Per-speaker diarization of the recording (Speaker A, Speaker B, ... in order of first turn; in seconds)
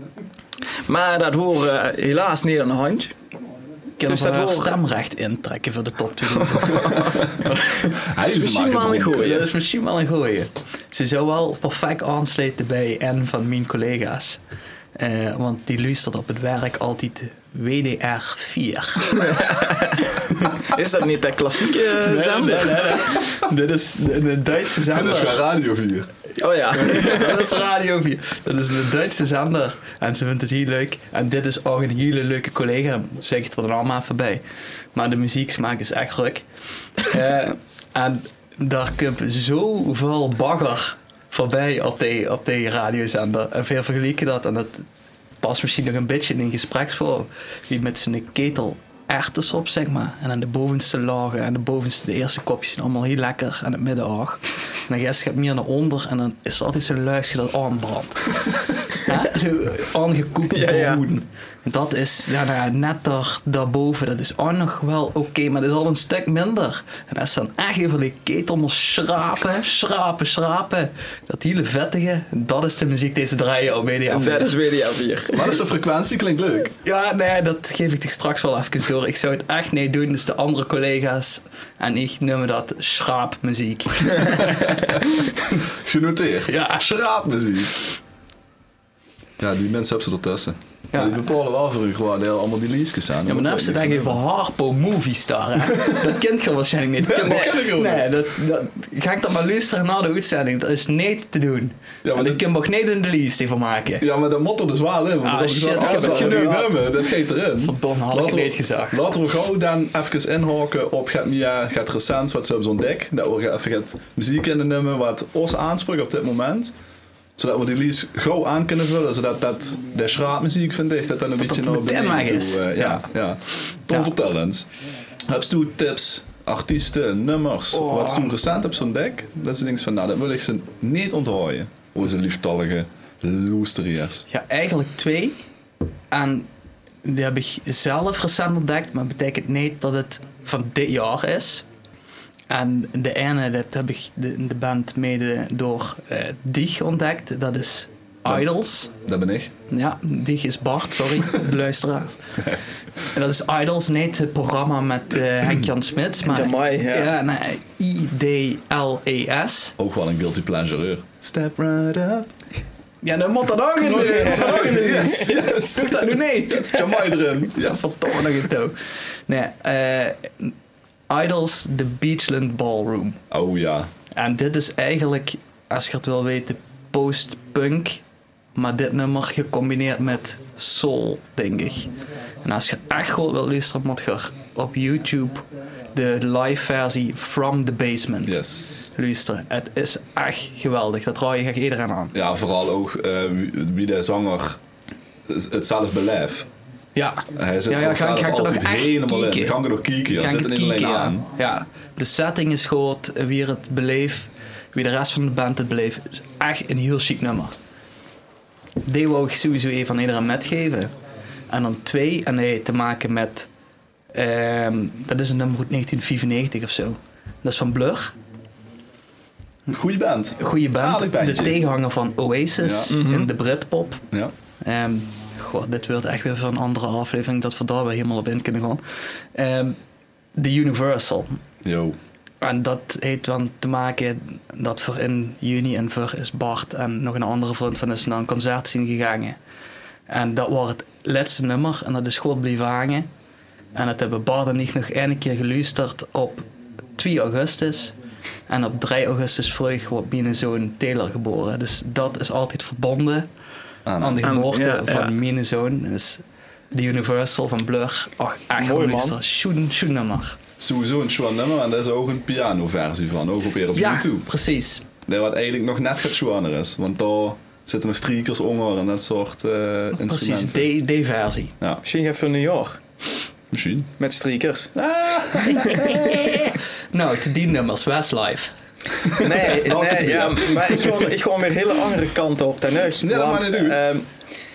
Speaker A: 0.9-3.1, 4.0-4.8, 8.2-9.5, 19.2-23.0, 26.4-27.5, 60.5-61.0, 74.1-75.5, 105.8-106.7, 156.2-157.1, 163.9-165.4, 222.9-223.3, 254.2-255.1, 258.6-259.2, 271.8-272.8, 274.0-274.7, 279.2-284.1
Speaker B: 4.0-7.9, 9.2-14.4, 14.9-19.6, 20.2-20.5, 21.9-25.4, 26.7-34.4, 34.9-36.4, 37.0-44.9, 45.4-74.5, 76.8-85.3, 86.5-86.9, 90.9-91.2, 93.2-104.0, 105.2-106.8, 107.6-109.0, 121.4-123.0, 127.8-128.3, 134.3-135.4, 136.1-136.5, 137.0-141.7, 142.5-148.9, 149.7-152.3, 153.0-159.8, 163.0-170.5, 171.1-173.2, 174.1-178.0, 178.5-181.9, 182.4-192.2, 196.9-199.6, 200.1-207.5, 208.8-210.9, 211.5-213.5, 214.1-218.1, 220.4-224.0, 224.6-229.8, 230.3-231.4, 232.4-239.4, 240.1-243.1, 243.7-247.9, 248.5-253.3, 254.0-260.4, 263.7-264.9, 269.9-271.5, 275.4-279.3
Speaker C: 8.0-9.4, 24.9-26.1, 75.3-76.7, 85.6-88.0, 89.4-94.2, 97.0-98.1, 102.0-102.4, 104.0-116.7, 117.4-124.7, 125.3-134.2, 149.0-149.5, 159.8-162.3, 163.8-168.2, 173.3-173.9, 188.2-188.9, 192.1-194.6, 195.3-196.5, 197.3-201.2, 219.7-221.6, 222.6-223.0, 231.6-232.0, 253.8-254.2, 260.6-264.3, 265.0-270.7, 273.5-273.9, 274.7-276.5, 279.4-281.1, 283.0-283.9